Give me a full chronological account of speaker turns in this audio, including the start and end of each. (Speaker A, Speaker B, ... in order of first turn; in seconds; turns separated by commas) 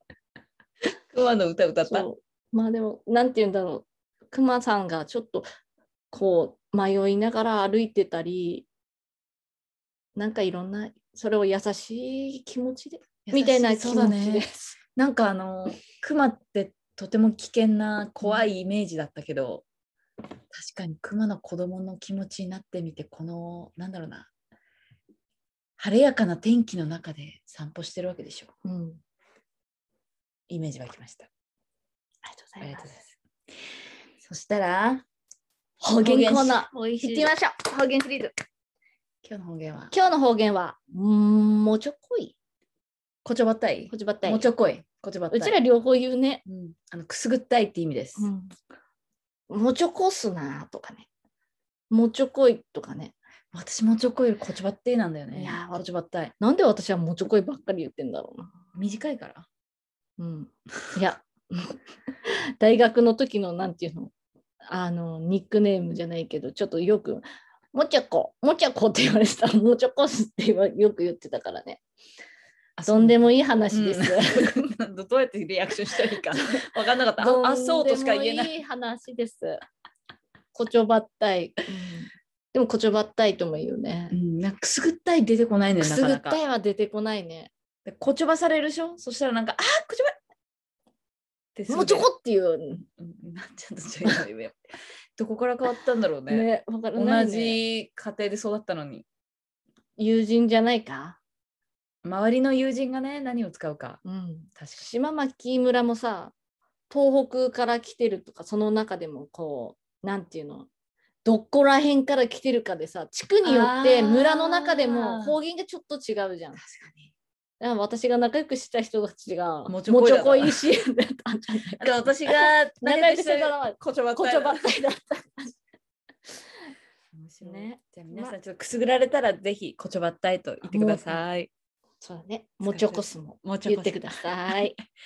Speaker A: 0.9-2.1, Speaker B: 1.9-5.5, Speaker B: 6.1-8.7, Speaker B: 10.2-14.8, Speaker A: 13.3-19.7, Speaker A: 20.5-24.3, Speaker A: 25.8-28.5, Speaker B: 28.6-29.0, Speaker A: 30.5-31.3, Speaker B: 32.2-33.0, Speaker A: 32.6-33.0, Speaker A: 34.2-35.0, Speaker B: 35.8-38.3, Speaker A: 36.0-37.3, Speaker A: 39.2-39.9, Speaker B: 39.9-42.4, Speaker A: 43.2-45.5, Speaker B: 43.9-44.5, Speaker B: 45.3-46.4, Speaker A: 46.5-48.3, Speaker B: 48.2-48.5, Speaker B: 49.5-51.1, Speaker B: 51.9-53.2, Speaker A: 53.5-56.3, Speaker B: 55.3-55.9, Speaker B: 56.4-58.5, Speaker A: 58.8-59.5, Speaker B: 60.2-64.1, Speaker B: 64.7-71.8, Speaker A: 72.8-78.5, Speaker B: 72.9-74.7, Speaker B: 77.2-79.6, Speaker B: 80.5-84.2, Speaker A: 84.1-86.4, Speaker B: 85.8-87.5, Speaker A: 87.8-90.1, Speaker A: 91.5-92.1, Speaker B: 91.7-92.8, Speaker A: 93.0-94.6, Speaker A: 95.2-99.0, Speaker B: 96.3-97.6, Speaker B: 100.0-101.2, Speaker A: 102.0-104.0, Speaker B: 104.0-106.3, Speaker A: 104.6-104.9, Speaker B: 106.9-110.7, Speaker B: 111.2-116.6, Speaker A: 113.4-115.4, Speaker A: 116.6-117.1, Speaker B: 117.6-125.5, Speaker A: 119.7-120.6, Speaker A: 121.8-124.7, Speaker A: 127.1-131.5, Speaker B: 127.4-128.3, Speaker B: 130.6-131.2, Speaker B: 132.0-134.8, Speaker A: 132.6-134.8